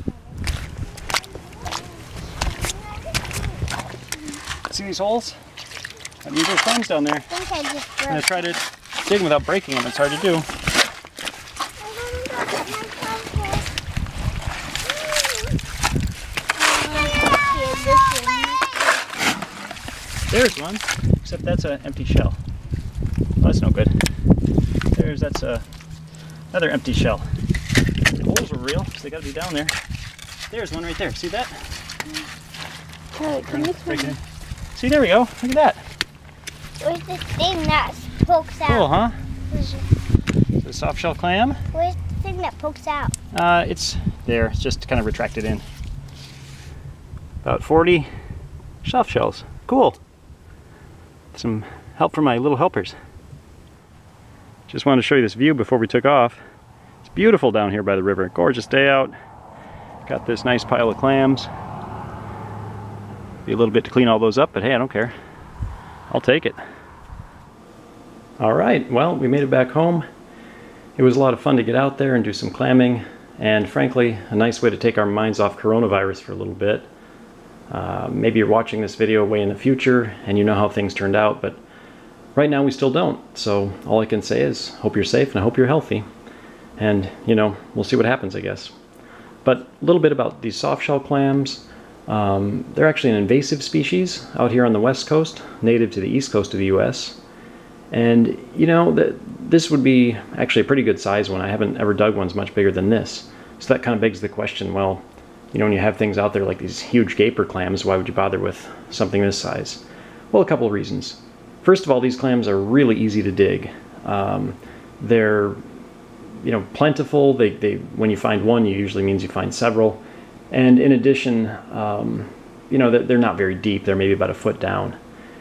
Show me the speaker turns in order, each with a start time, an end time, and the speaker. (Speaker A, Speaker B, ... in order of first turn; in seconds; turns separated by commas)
Speaker A: 2.5-3.3, Speaker B: 4.7-5.4, Speaker B: 6.2-7.3, Speaker A: 7.3-8.2, Speaker B: 8.1-10.4, Speaker A: 11.8-13.7, Speaker A: 14.9-15.5, Speaker A: 16.6-19.0, Speaker B: 20.3-22.4, Speaker B: 23.4-23.9, Speaker B: 24.9-25.6, Speaker B: 26.5-27.2, Speaker B: 28.1-29.7, Speaker B: 30.5-31.6, Speaker A: 33.1-34.1, Speaker B: 33.5-34.2, Speaker B: 34.7-35.8, Speaker A: 36.8-38.9, Speaker B: 38.6-39.2, Speaker A: 39.5-39.8, Speaker B: 40.6-41.6, Speaker A: 41.7-43.1, Speaker B: 43.3-45.6, Speaker B: 47.4-48.1, Speaker B: 48.8-50.0, Speaker B: 51.3-53.0, Speaker B: 54.7-56.4, Speaker B: 57.0-59.1, Speaker B: 60.0-61.5, Speaker B: 63.4-65.1, Speaker B: 66.1-66.6, Speaker B: 68.4-70.0, Speaker B: 71.0-76.8, Speaker B: 77.7-81.6, Speaker B: 82.3-86.0, Speaker B: 86.8-88.7, Speaker B: 89.4-97.2, Speaker B: 97.9-115.6, Speaker B: 116.4-125.0